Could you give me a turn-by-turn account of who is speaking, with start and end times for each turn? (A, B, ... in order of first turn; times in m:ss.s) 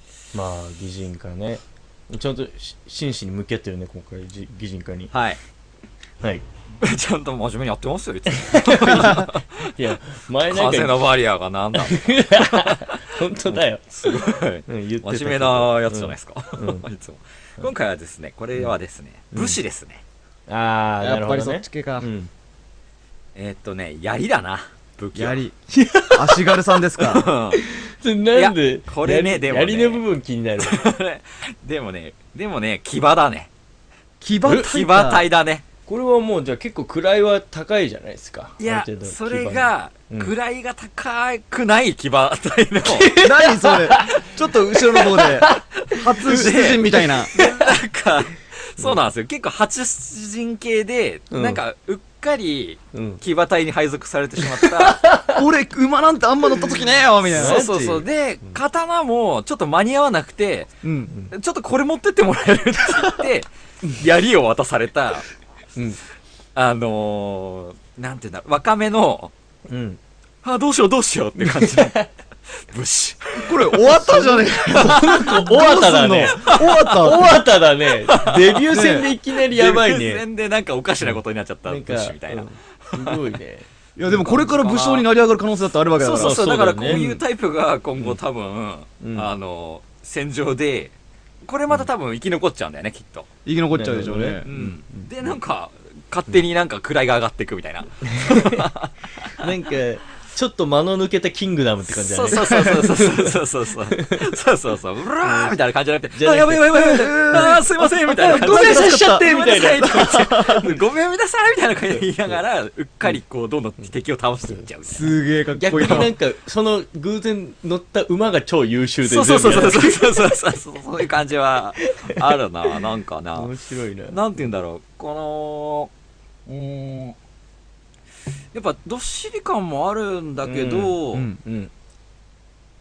0:00.3-0:05.1 A
0:05.1-0:05.4 B
0:06.8-0:09.7 B
0:08.3-0:11.1 A
0:10.4-0:20.0 B
0:11.7-0:16.8 A
0:19.3-0:19.6 A
0:20.5-0:22.3 A
0:21.0-0:22.1 C
0:23.3-0:25.4 B
0:25.1-0:25.5 C
0:25.7-0:26.6 A
0:26.1-0:27.3 C
0:27.0-0:27.6 B
0:27.6-0:30.8 A
0:28.3-0:30.0 B
0:30.6-0:33.5 B
0:34.2-0:35.2 C
0:34.4-0:34.7 A
0:34.5-0:35.6 B
0:35.9-0:40.3 A
0:38.6-0:43.1 B
0:42.8-0:44.1 A
0:43.1-0:47.3 C
0:44.8-0:45.6 A
0:45.8-0:55.1 B
0:46.3-0:47.7 A
0:51.3-0:51.6 A
0:52.9-0:53.2 A
0:54.6-0:55.4 A
0:55.3-0:57.6 C
0:57.2-1:00.7 B
0:57.3-0:58.6 A
1:00.8-1:01.1 C
1:01.3-1:05.3 B
1:06.5-1:09.3 B
1:09.7-1:10.0 A
1:10.4-1:13.5 B
1:11.4-1:12.1 A
1:13.4-1:17.4 C
1:13.8-1:20.2 A
1:14.9-1:15.3 B
1:16.3-1:16.6 B
1:18.1-1:18.6 B
1:18.7-1:19.1 C
1:19.5-1:23.2 B
1:21.0-1:24.4 A
1:24.0-1:27.2 C
1:24.3-1:25.1 B
1:26.0-1:33.3 B
1:26.1-1:27.2 A
1:29.0-1:29.3 A
1:33.4-1:34.5 C
1:33.7-1:35.3 A
1:34.4-1:39.5 B
1:38.0-1:38.7 A
1:39.3-1:44.4 A
1:41.9-1:55.1 B
1:42.3-1:42.8 C
1:45.2-1:45.6 A
1:46.1-1:50.3 A
1:46.6-1:50.6 C
1:51.9-1:52.4 A
1:54.4-1:54.7 A
1:54.8-1:56.1 C
1:55.5-2:00.2 A
1:59.0-2:03.5 B
2:02.0-2:02.4 A
2:03.3-2:04.2 A
2:04.1-2:05.9 B
2:06.4-2:07.2 B
2:08.5-2:11.3 B
2:10.4-2:11.7 A
2:11.1-2:11.4 C